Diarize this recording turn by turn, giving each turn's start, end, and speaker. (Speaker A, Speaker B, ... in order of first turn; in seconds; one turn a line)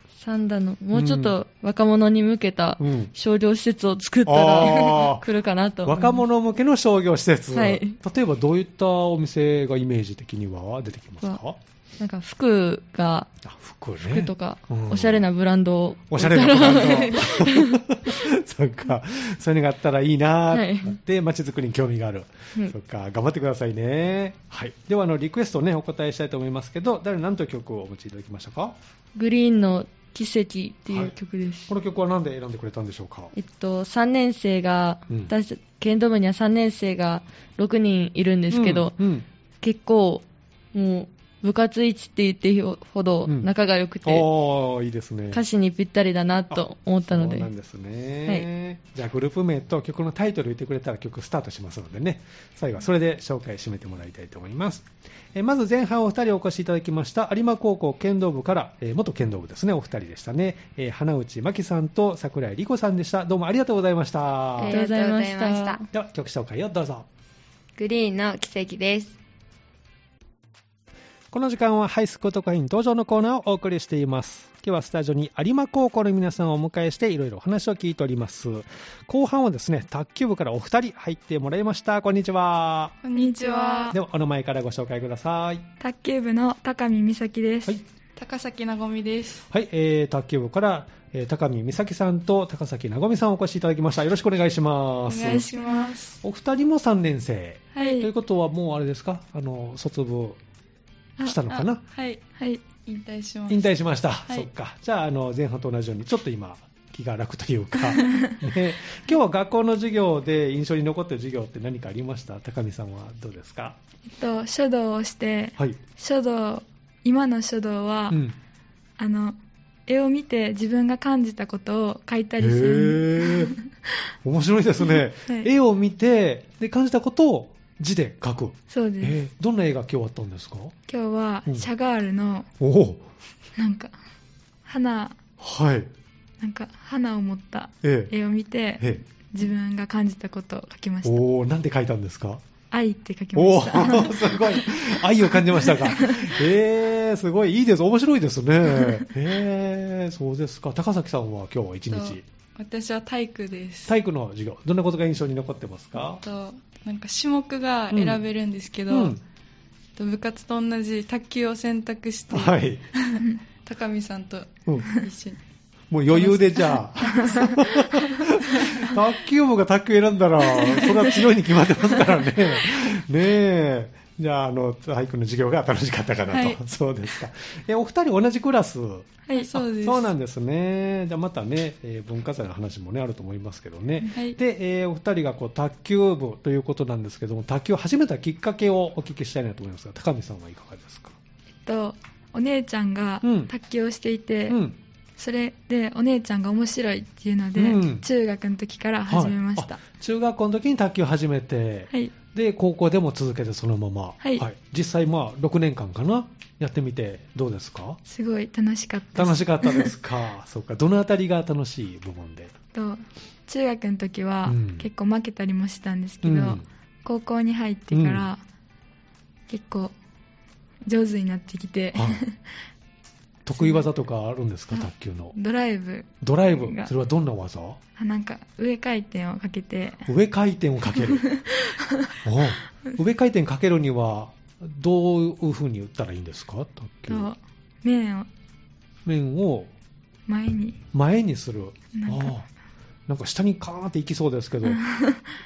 Speaker A: 0.2-6.2
Speaker B: 0.9-1.3
Speaker B: 2.8-3.1
Speaker B: 4.3-5.2
Speaker B: 5.8-11.6
Speaker A: 7.5-8.0
Speaker A: 12.0-13.3
Speaker B: 13.4-15.3
Speaker A: 14.0-18.1
Speaker B: 16.1-28.8
Speaker A: 20.5-21.0
Speaker A: 29.2-31.7
Speaker B: 30.9-31.1
Speaker B: 31.7-33.3
Speaker A: 33.3-38.9
Speaker B: 38.5-39.2
Speaker A: 39.6-44.3
Speaker B: 44.0-45.4
Speaker A: 45.3-47.5
Speaker B: 46.5-64.8
Speaker C: 64.6-65.8
Speaker A: 64.6-65.9
Speaker B: 65.9-67.1
Speaker C: 67.8-69.2
Speaker B: 71.3-83.0
Speaker D: 83.0-83.9
Speaker E: 83.2-84.0
Speaker B: 83.9-85.7
Speaker E: 85.8-87.8
Speaker D: 88.2-89.5
Speaker B: 89.5-95.5
Speaker D: 95.1-96.2
Speaker E: 95.2-96.0
Speaker B: 96.2-100.4
Speaker E: 97.8-98.1
Speaker B: 101.2-101.8
Speaker D: 101.5-102.2
Speaker E: 102.4-102.7
Speaker D: 102.8-103.7
Speaker B: 103.5-113.8
Speaker E: 114.1-118.2
Speaker B: 118.1-118.4
Speaker E: 119.0-123.9
Speaker B: 122.4-123.5
Speaker B: 124.2-130.7
Speaker E: 124.9-125.5
Speaker E: 128.7-129.2
Speaker E: 130.9-132.5
Speaker B: 132.6-133.1
Speaker E: 133.6-133.9
Speaker E: 134.7-135.2
Speaker B: 135.4-135.9
Speaker E: 136.4-141.2
Speaker B: 137.8-138.1
Speaker B: 141.0-142.4
Speaker E: 142.7-144.8
Speaker B: 143.3-152.2
Speaker E: 145.4-146.3
Speaker D: 151.9-153.9
Speaker B: 153.9-156.2
Speaker D: 156.0-159.2
Speaker B: 157.9-158.2
Speaker B: 158.9-159.2
Speaker D: 160.0-165.4
Speaker B: 162.3-162.9
Speaker B: 165.9-191.2
Speaker D: 166.1-166.9
Speaker D: 168.0-168.7
Speaker D: 176.3-176.6
Speaker D: 179.4-180.1
Speaker E: 184.0-184.4
Speaker E: 191.7-194.6
Speaker B: 193.2-193.5
Speaker B: 194.5-194.8
Speaker E: 195.2-199.8
Speaker B: 197.6-198.0
Speaker B: 199.1-208.0
Speaker E: 208.1-209.9
Speaker B: 209.2-212.5
Speaker E: 212.7-218.4
Speaker B: 214.5-214.9
Speaker B: 216.2-216.7
Speaker B: 217.9-218.3
Speaker E: 219.5-219.9
Speaker E: 220.9-222.5
Speaker B: 221.9-222.2
Speaker B: 223.5-225.3
Speaker E: 223.6-223.9
Speaker E: 224.7-226.9
Speaker B: 226.2-227.8
Speaker E: 228.0-230.1
Speaker B: 230.1-231.3
Speaker E: 231.4-232.1
Speaker B: 232.2-237.3
Speaker E: 237.1-238.3
Speaker B: 239.1-239.7
Speaker E: 240.3-240.8
Speaker B: 240.9-242.5
Speaker E: 241.9-242.3
Speaker B: 243.1-244.8
Speaker E: 244.7-245.3